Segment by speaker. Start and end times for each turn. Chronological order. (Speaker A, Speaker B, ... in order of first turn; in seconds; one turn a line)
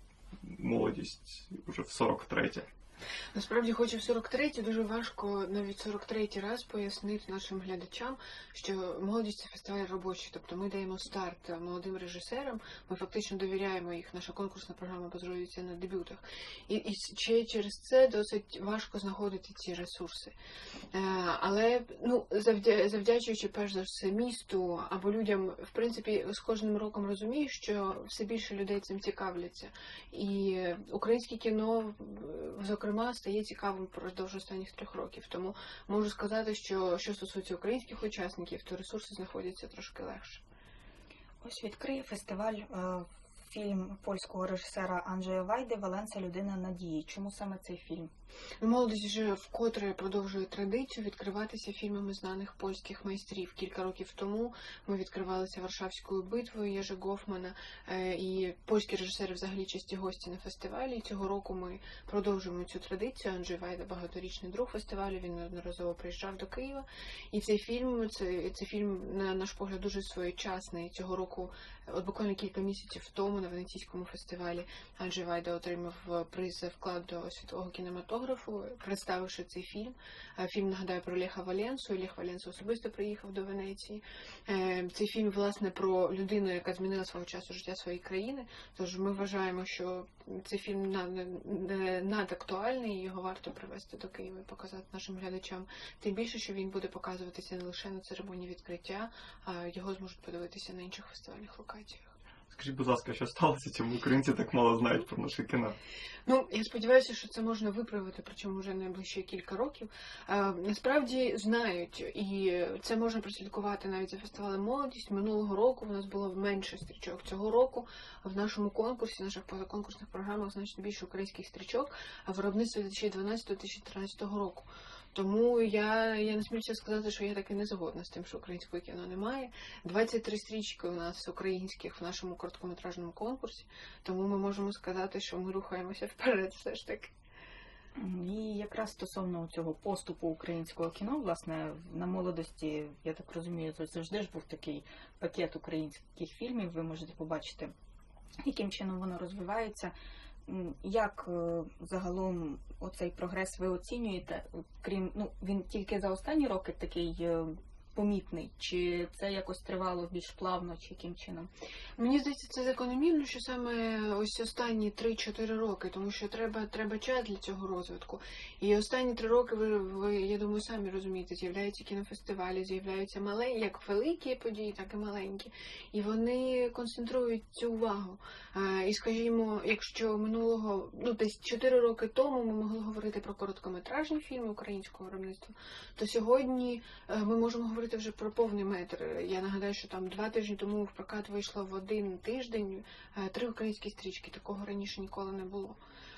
Speaker A: 0.4-2.7
Speaker B: 3.3-20.3
Speaker B: 20.9-40.4
Speaker C: 41.4-48.1
Speaker B: 48.6-102.1
Speaker A: 102.5-105.8
Speaker B: 106.3-137.1
Speaker C: 138.0-147.7
Speaker C: 148.4-149.9
Speaker C: 150.4-161.5
Speaker B: 161.9-195.8